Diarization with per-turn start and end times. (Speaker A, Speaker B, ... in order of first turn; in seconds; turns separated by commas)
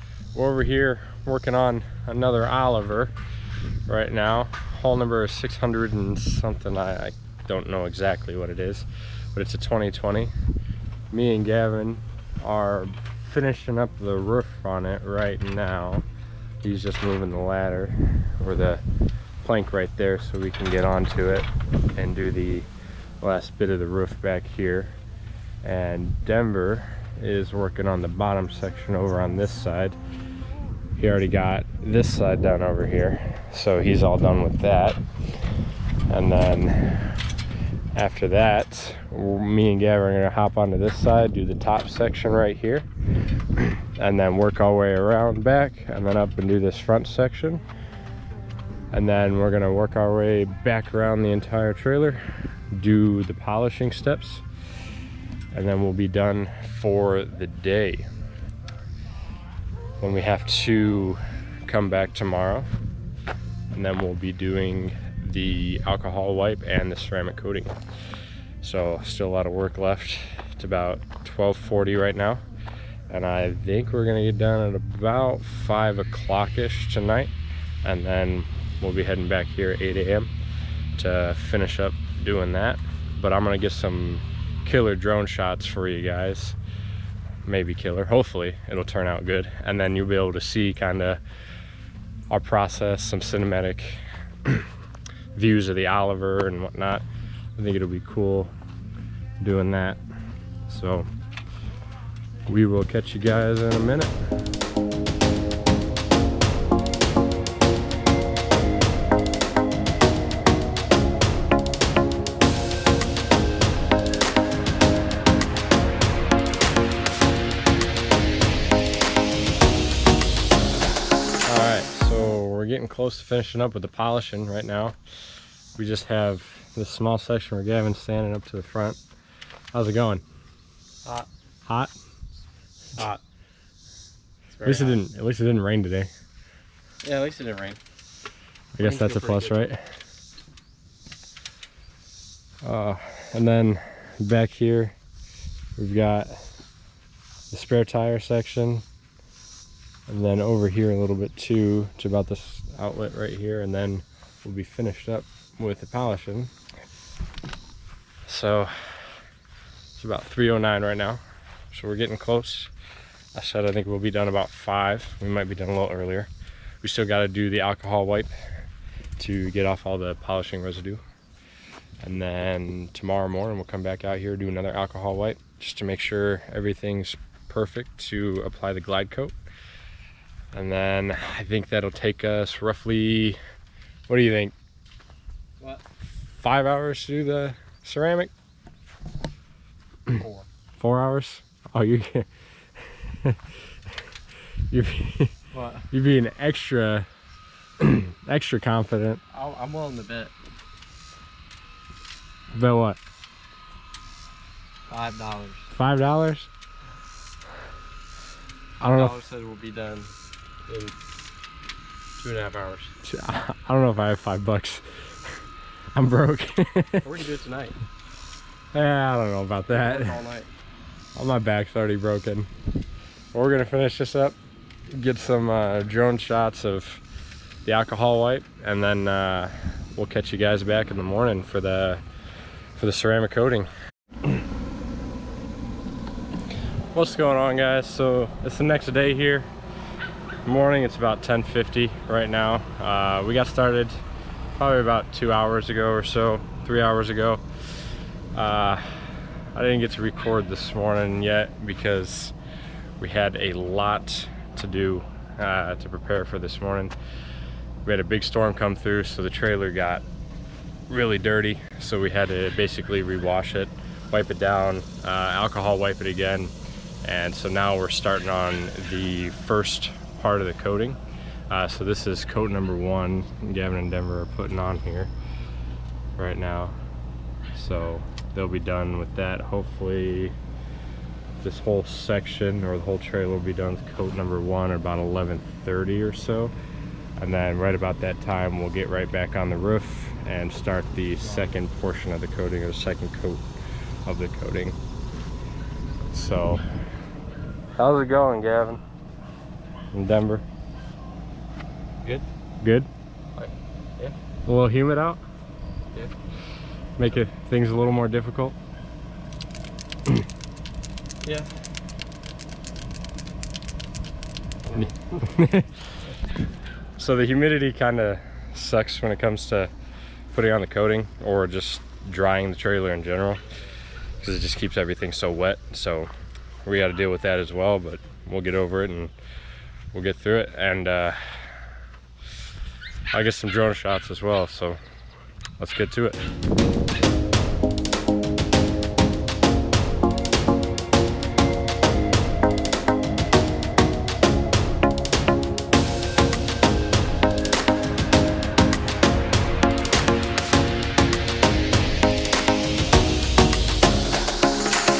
Speaker A: 0.3-3.1, Speaker A: 3.8-10.3, Speaker A: 11.1-16.0, Speaker A: 16.6-18.8, Speaker A: 19.4-22.7, Speaker A: 23.2-24.9, Speaker A: 25.6-30.0, Speaker A: 30.9-35.0, Speaker A: 36.1-37.2, Speaker A: 37.9-47.6, Speaker A: 48.9-54.4, Speaker A: 55.5-58.1, Speaker A: 60.0-62.7, Speaker A: 63.7-67.7, Speaker A: 68.6-72.4, Speaker A: 73.1-77.3, Speaker A: 77.8-80.3, Speaker A: 80.9-86.6, Speaker A: 87.4-91.2, Speaker A: 92.3-94.7, Speaker A: 95.3-97.0, Speaker A: 97.6-98.5, Speaker A: 99.4-100.0, Speaker A: 100.7-101.1, Speaker A: 102.5-104.1, Speaker A: 121.4-125.0, Speaker A: 125.8-129.0, Speaker A: 129.7-130.2, Speaker A: 131.7-131.9, Speaker B: 134.5-135.0, Speaker A: 134.6-136.1, Speaker B: 137.0-137.8, Speaker A: 138.7-139.8, Speaker B: 138.8-139.7, Speaker A: 142.6-144.9, Speaker A: 145.8-146.4, Speaker A: 147.5-148.8, Speaker A: 150.1-156.5, Speaker A: 158.2-159.2, Speaker A: 159.9-162.7, Speaker A: 163.3-166.3, Speaker A: 166.8-168.3, Speaker A: 169.2-171.0, Speaker A: 172.0-179.3, Speaker A: 180.5-183.4, Speaker A: 184.1-184.5, Speaker A: 186.2-188.3, Speaker B: 190.1-190.5, Speaker A: 190.8-192.3, Speaker A: 192.8-193.5, Speaker A: 194.7-195.3, Speaker B: 195.5-195.8, Speaker A: 195.9-197.1, Speaker A: 197.8-199.2, Speaker B: 199.3-200.3, Speaker A: 202.5-203.0, Speaker B: 204.9-205.7, Speaker A: 205.7-206.5, Speaker A: 208.8-209.1, Speaker B: 208.9-210.1, Speaker B: 210.7-210.9, Speaker B: 212.2-212.9, Speaker A: 213.0-215.3, Speaker A: 215.9-217.2, Speaker B: 217.0-217.8, Speaker A: 218.7-220.2, Speaker B: 219.7-220.5, Speaker A: 221.1-222.5, Speaker A: 223.3-224.3, Speaker A: 224.9-227.0, Speaker A: 227.6-232.0, Speaker A: 232.8-233.7, Speaker A: 236.9-239.5, Speaker A: 240.4-244.0, Speaker A: 244.6-252.3, Speaker A: 253.0-256.9, Speaker A: 257.8-260.0, Speaker A: 260.9-275.1, Speaker A: 276.2-276.8, Speaker A: 277.5-280.3, Speaker A: 281.4-286.5, Speaker A: 287.2-293.4, Speaker A: 294.0-294.8, Speaker A: 296.1-296.6, Speaker A: 297.8-298.8, Speaker A: 299.9-300.4, Speaker A: 302.6-302.9, Speaker B: 303.4-304.1, Speaker A: 304.4-305.2, Speaker A: 307.0-308.6, Speaker B: 311.2-311.5, Speaker B: 314.6-314.9, Speaker A: 314.8-315.8, Speaker A: 317.0-319.7, Speaker A: 320.3-323.4, Speaker A: 324.2-326.1, Speaker A: 326.6-329.1, Speaker A: 329.9-331.7, Speaker A: 333.1-334.8, Speaker A: 335.6-336.2